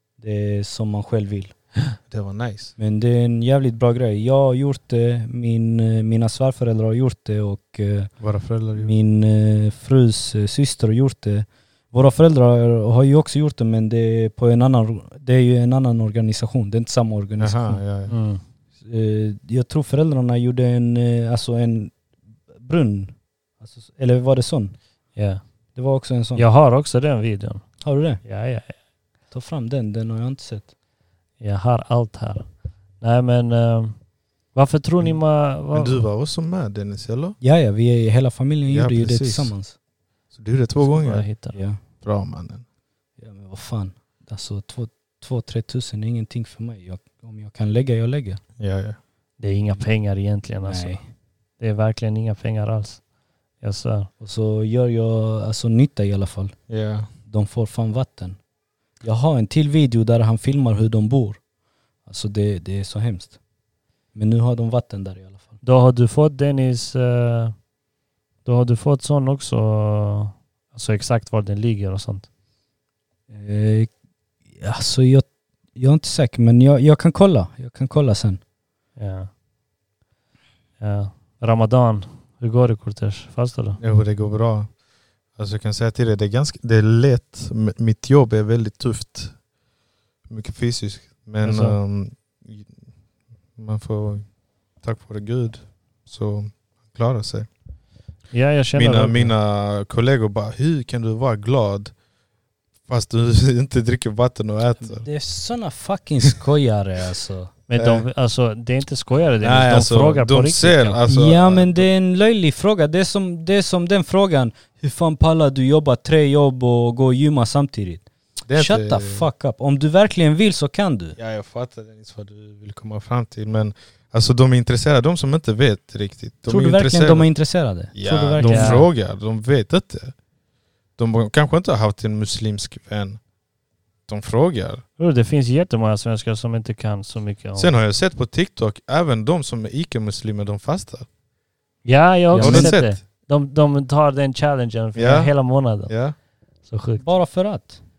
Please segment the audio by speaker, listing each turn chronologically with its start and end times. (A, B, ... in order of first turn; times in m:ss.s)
0:00.2-0:01.5 A
0:02.1-0:02.7 B
0:02.8-0:08.2 A
0:08.2-0:08.9 B
0:08.8-0:17.8 A
0:17.4-0:18.1 B
0:18.1-0:18.4 C
0:18.8-0:22.0 A
0:22.5-0:24.8 A
0:25.2-0:25.4 C
0:25.8-0:26.5 A
0:26.4-0:27.7 C
0:27.8-0:28.2 A
0:28.2-0:28.8 C
0:29.3-0:30.7 A
0:31.4-0:36.1 C
0:35.0-0:37.4 B
0:37.4-0:39.8 A
0:38.7-0:39.6 B
0:40.3-0:41.3 B
0:40.8-0:41.6 C
0:41.5-0:41.8 A
0:42.0-0:42.6 B
0:43.2-0:48.4 A
0:48.6-0:49.0 B
0:49.4-0:51.1 C
0:50.6-0:51.1 A
0:51.6-0:53.0 C
0:53.6-0:54.1 C
0:54.2-0:56.6 A
0:56.7-0:57.1 B
0:57.3-0:58.4 A
0:59.0-1:01.4 A
1:02.0-1:03.4 A
1:04.1-1:05.6 A
1:05.6-1:07.6 C
1:08.4-1:12.3 C
1:13.3-1:13.9 A
1:14.5-1:18.4 A
1:19.0-1:19.3 C
1:20.8-1:23.8 C
1:23.8-1:24.8 B
1:25.4-1:29.4 B
1:30.3-1:32.9 B
1:31.4-1:31.8 C
1:33.6-1:37.5 B
1:38.3-1:39.4 C
1:38.7-1:42.0 B
1:42.9-1:45.1 B
1:44.8-1:47.5 A
1:47.7-1:51.0 C
1:47.8-1:48.1 B
1:49.4-1:51.9 B
1:51.0-2:01.2 A
1:58.5-1:59.3 B
2:01.2-2:10.2 B
2:06.5-2:08.9 A
2:08.4-2:08.9 C
2:11.0-2:13.2 B
2:14.1-2:14.8 B
2:15.0-2:17.7 C
2:17.6-2:21.1 B
2:21.8-2:25.9 C
2:22.3-2:22.8 A
2:22.4-2:23.0 B
2:25.0-2:26.2 B
2:26.7-2:27.0 C
2:27.0-2:27.8 A